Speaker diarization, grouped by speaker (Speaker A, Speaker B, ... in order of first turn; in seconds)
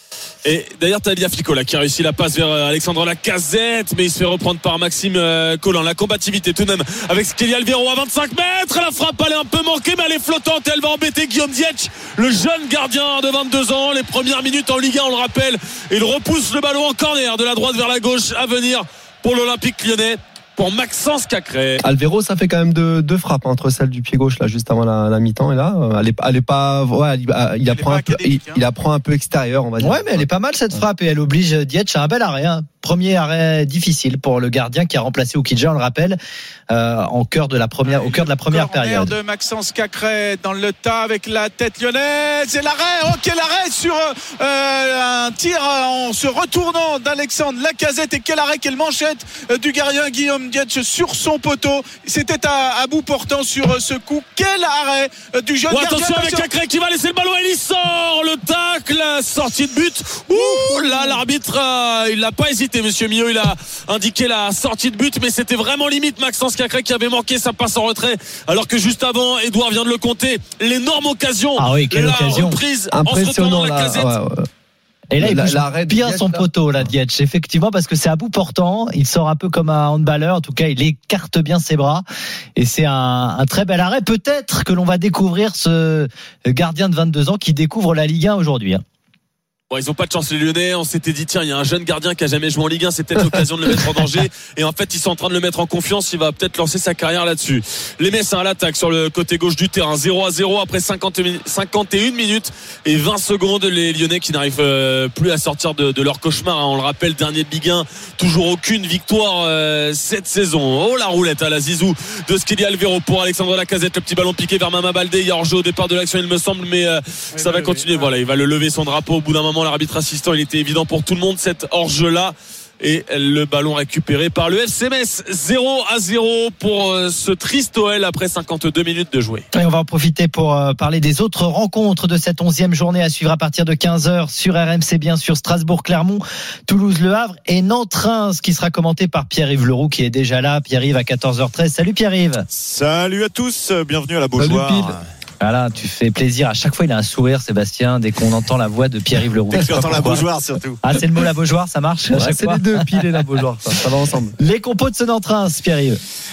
Speaker A: 0.4-21.8, 55.7-74.1, 89.7-129.4
Speaker B: 21.8-30.2, 72.9-74.5, 75.2-76.4, 144.4-144.9, 152.1-154.4
Speaker C: 27.7-28.6, 37.8-56.5, 60.3-61.2, 117.3-118.1
Speaker D: 29.8-36.2, 36.7-39.1, 71.6-72.6, 75.1-82.0, 82.6-88.8, 129.5-142.4, 145.4-150.2, 150.8-153.0, 154.4-156.0
Speaker E: 142.5-145.0, 149.5-151.0